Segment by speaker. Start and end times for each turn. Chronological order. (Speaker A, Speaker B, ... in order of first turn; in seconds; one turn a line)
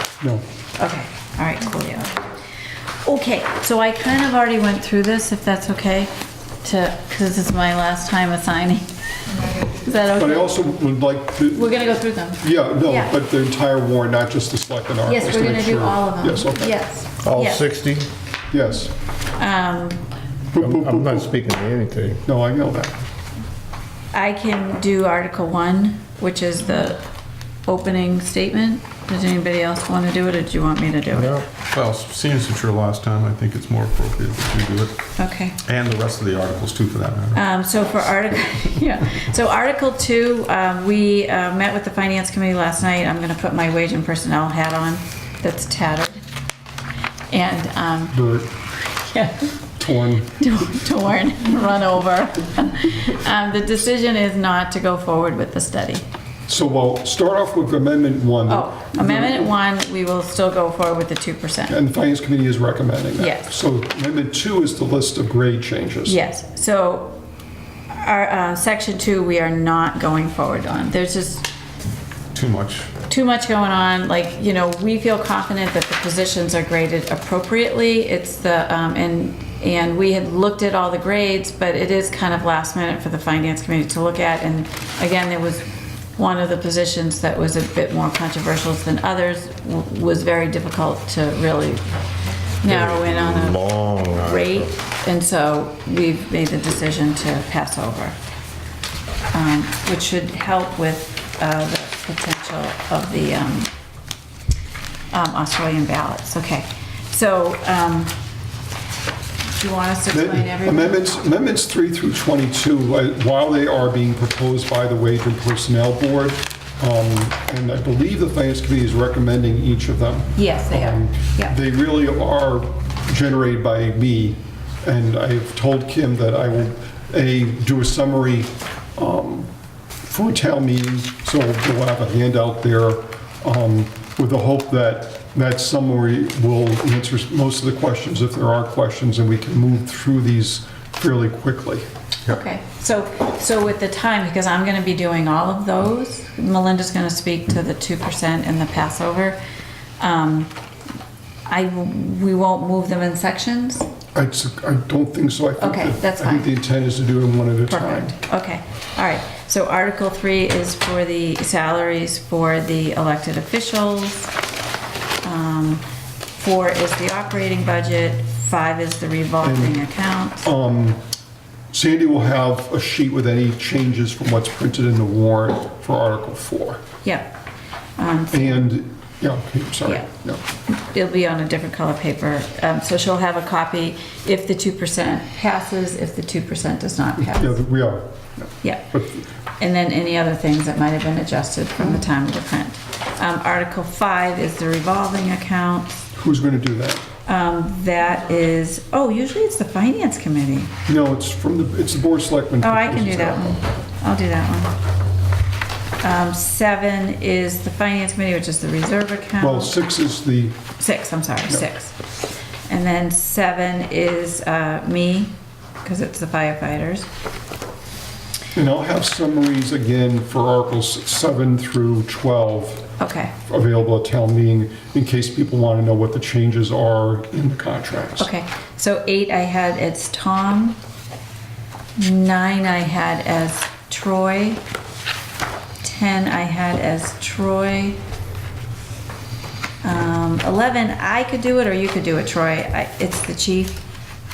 Speaker A: 0.8-2.2
Speaker A: 3.0-6.1
Speaker A: 6.6-8.8
Speaker A: 9.6-10.6
Speaker B: 10.2-16.7
Speaker A: 11.5-13.1
Speaker A: 15.0-17.6
Speaker C: 17.2-18.1
Speaker B: 18.5-18.9
Speaker A: 19.3-20.0
Speaker B: 20.5-21.3
Speaker C: 20.6-22.2
Speaker B: 22.2-22.9
Speaker A: 24.1-27.0
Speaker A: 27.7-31.4
Speaker C: 31.1-31.4
Speaker D: 31.7-35.0
Speaker A: 35.2-35.6
Speaker D: 35.6-37.4
Speaker A: 37.3-46.2
Speaker A: 47.3-48.2
Speaker B: 48.1-48.5
Speaker A: 48.7-49.5
Speaker B: 49.8-50.3
Speaker A: 50.2-56.0
Speaker B: 56.5-59.5
Speaker A: 58.5-61.8
Speaker B: 61.7-66.2
Speaker A: 63.2-63.5
Speaker A: 66.0-67.2
Speaker A: 67.9-71.5
Speaker D: 72.3-72.9
Speaker A: 73.1-91.8
Speaker A: 92.6-98.2
Speaker C: 92.6-94.7
Speaker A: 99.3-103.7
Speaker A: 105.1-108.1
Speaker A: 109.5-111.1
Speaker B: 110.1-129.5
Speaker A: 120.3-121.5
Speaker B: 130.1-141.8
Speaker A: 142.2-149.4
Speaker A: 150.0-150.5
Speaker A: 151.5-153.8
Speaker B: 154.1-158.1
Speaker A: 155.6-156.5
Speaker A: 157.7-164.3
Speaker A: 165.2-165.8
Speaker A: 166.4-170.5
Speaker B: 169.4-169.8
Speaker B: 170.4-171.0
Speaker B: 171.7-176.8
Speaker A: 178.0-178.7
Speaker B: 178.3-180.4
Speaker A: 180.7-187.6
Speaker B: 187.2-189.2
Speaker A: 188.6-188.9
Speaker A: 189.6-196.0
Speaker B: 196.1-197.0
Speaker A: 197.2-200.7
Speaker B: 200.9-203.4
Speaker A: 202.6-204.7
Speaker A: 206.0-209.7
Speaker B: 209.4-210.6
Speaker A: 210.8-211.9
Speaker A: 212.7-217.1
Speaker B: 218.5-222.9
Speaker A: 223.0-223.3
Speaker B: 223.5-228.3
Speaker A: 228.2-230.8
Speaker A: 232.0-234.6
Speaker A: 235.8-238.0
Speaker A: 239.8-243.8